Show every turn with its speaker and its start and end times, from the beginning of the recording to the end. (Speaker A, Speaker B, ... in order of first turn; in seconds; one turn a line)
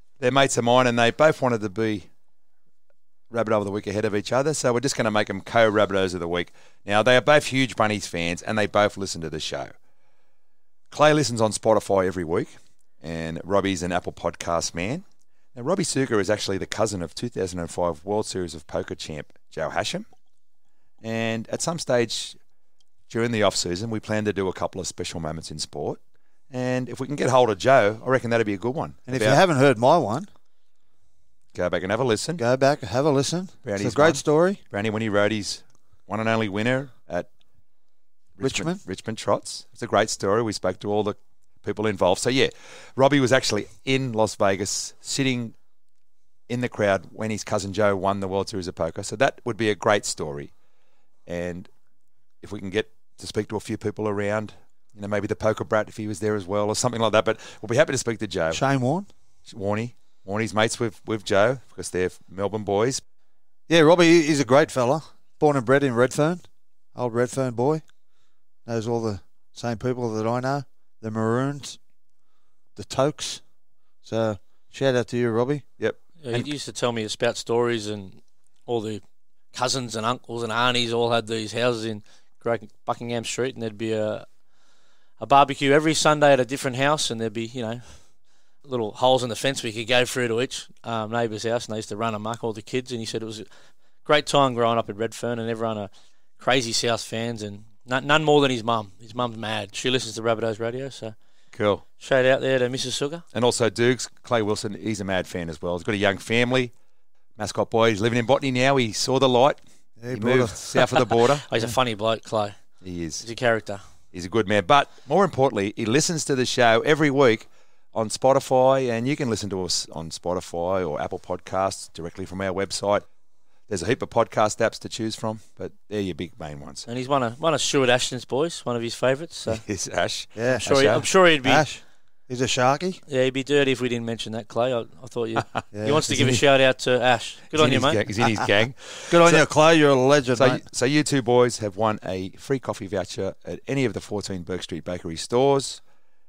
Speaker A: 0.2-2.1
Speaker A: 3.3-9.7
Speaker A: 10.9-15.0
Speaker A: 15.6-20.1
Speaker A: 21.0-22.4
Speaker A: 23.1-29.4
Speaker B: 29.1-30.3
Speaker A: 31.5-32.4
Speaker B: 32.4-34.6
Speaker A: 33.6-37.3
Speaker A: 38.4-45.6
Speaker B: 38.4-38.8
Speaker A: 46.5-50.6
Speaker A: 51.3-51.7
Speaker A: 52.4-58.6
Speaker B: 58.5-59.1
Speaker A: 59.5-63.0
Speaker B: 63.7-67.8
Speaker B: 68.7-71.8
Speaker B: 72.8-73.5
Speaker B: 74.0-75.7
Speaker A: 75.8-76.5
Speaker C: 76.2-84.4
Speaker C: 85.2-93.5
Speaker C: 94.0-101.2
Speaker A: 101.5-101.8
Speaker C: 101.8-103.2
Speaker A: 103.3-106.7
Speaker A: 107.4-111.5
Speaker B: 110.0-110.8
Speaker C: 111.5-113.8
Speaker A: 112.8-113.2
Speaker A: 114.1-123.1
Speaker A: 123.7-126.9
Speaker C: 126.9-129.7
Speaker A: 129.5-131.1
Speaker B: 130.3-133.0
Speaker C: 130.7-131.7
Speaker C: 133.1-138.2
Speaker B: 135.7-136.4
Speaker A: 137.5-139.5
Speaker B: 139.1-140.6
Speaker A: 140.3-145.8